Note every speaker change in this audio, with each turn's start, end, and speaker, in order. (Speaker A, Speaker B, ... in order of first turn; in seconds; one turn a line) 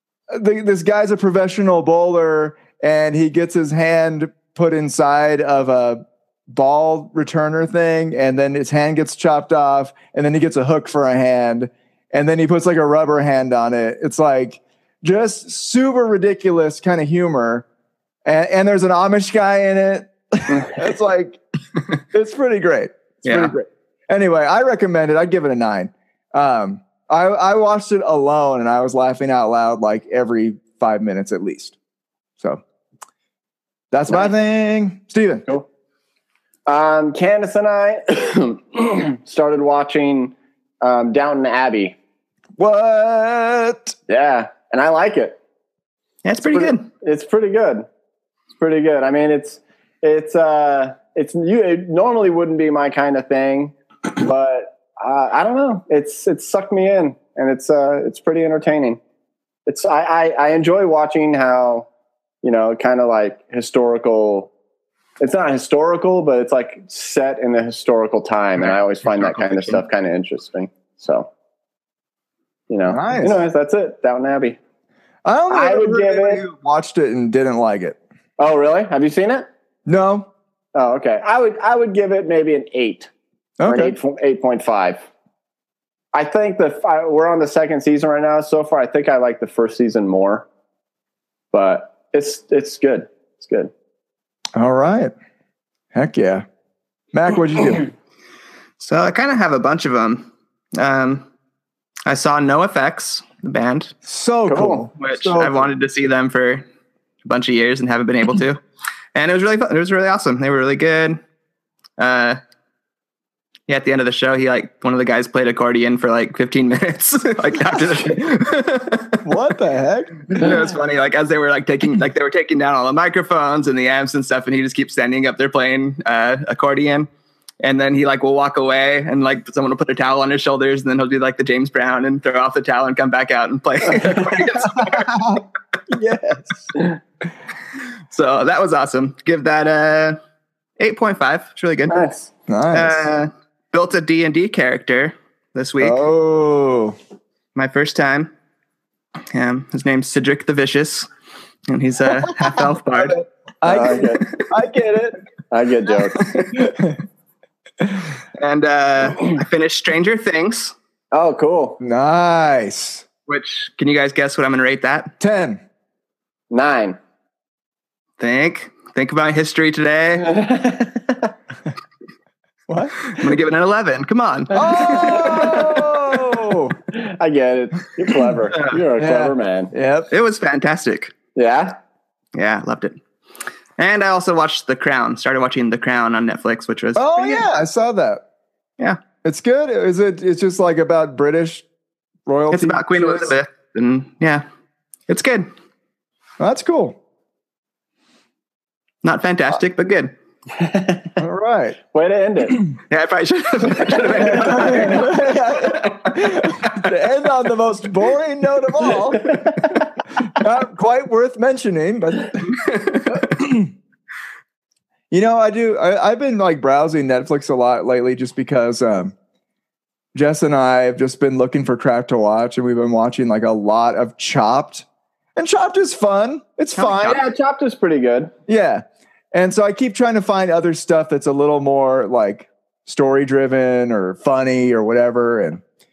Speaker A: 0.3-17.6
Speaker A: 18.2-21.4
Speaker A: 22.1-31.8
Speaker B: 23.2-23.5
Speaker A: 33.9-35.5
Speaker C: 36.6-42.0
Speaker A: 42.6-44.0
Speaker C: 44.1-45.4
Speaker B: 46.2-46.9
Speaker C: 46.5-47.9
Speaker C: 48.6-59.0
Speaker C: 59.6-61.9
Speaker C: 62.4-64.5
Speaker C: 65.2-71.3
Speaker B: 68.6-69.8
Speaker C: 72.7-74.6
Speaker A: 72.9-73.4
Speaker A: 75.2-78.0
Speaker C: 75.5-76.4
Speaker C: 78.4-79.5
Speaker A: 79.8-80.3
Speaker C: 80.7-83.1
Speaker A: 83.6-84.0
Speaker C: 83.6-85.0
Speaker C: 86.1-90.5
Speaker C: 91.5-93.7
Speaker A: 94.5-95.1
Speaker A: 95.9-96.4
Speaker A: 97.1-97.9
Speaker B: 98.8-101.3
Speaker B: 102.0-104.0
Speaker A: 104.0-105.7
Speaker C: 104.5-104.9
Speaker B: 105.0-106.7
Speaker B: 107.2-108.6
Speaker B: 109.1-111.2
Speaker B: 112.0-112.4
Speaker B: 113.7-119.2
Speaker A: 119.2-120.5
Speaker B: 120.3-127.1
Speaker B: 127.6-135.1
Speaker A: 134.8-136.7
Speaker B: 138.1-140.2
Speaker B: 140.8-142.0
Speaker C: 141.9-142.3
Speaker A: 142.5-143.0
Speaker B: 142.7-146.0
Speaker A: 145.8-146.9
Speaker B: 147.5-148.3
Speaker B: 149.3-151.1
Speaker B: 151.7-153.2
Speaker A: 152.9-155.2
Speaker C: 153.7-154.3
Speaker C: 155.5-156.3
Speaker B: 156.2-156.5
Speaker A: 156.5-157.0
Speaker B: 158.3-160.7
Speaker C: 161.1-161.8
Speaker A: 161.8-163.0
Speaker B: 163.3-165.1
Speaker A: 165.2-165.6
Speaker C: 166.5-167.0
Speaker B: 168.2-170.4
Speaker C: 170.2-171.1
Speaker A: 172.7-173.3
Speaker B: 173.1-175.8
Speaker A: 174.5-176.8
Speaker C: 176.9-179.7
Speaker A: 179.0-180.1
Speaker B: 180.1-181.1
Speaker C: 181.3-181.8
Speaker B: 182.3-183.0
Speaker B: 183.8-187.5
Speaker A: 186.9-188.2
Speaker A: 189.2-191.6
Speaker A: 192.2-193.3
Speaker B: 192.5-194.4
Speaker B: 195.1-195.5
Speaker A: 196.4-197.0
Speaker B: 199.0-200.1
Speaker C: 200.5-201.2
Speaker A: 201.2-201.8
Speaker C: 201.9-202.7
Speaker B: 202.9-205.9
Speaker A: 204.2-212.6
Speaker C: 209.2-209.6
Speaker B: 212.5-213.3
Speaker A: 213.1-213.7
Speaker A: 215.1-219.1
Speaker A: 220.1-227.2
Speaker B: 226.8-227.2
Speaker C: 227.0-228.3
Speaker A: 228.5-235.6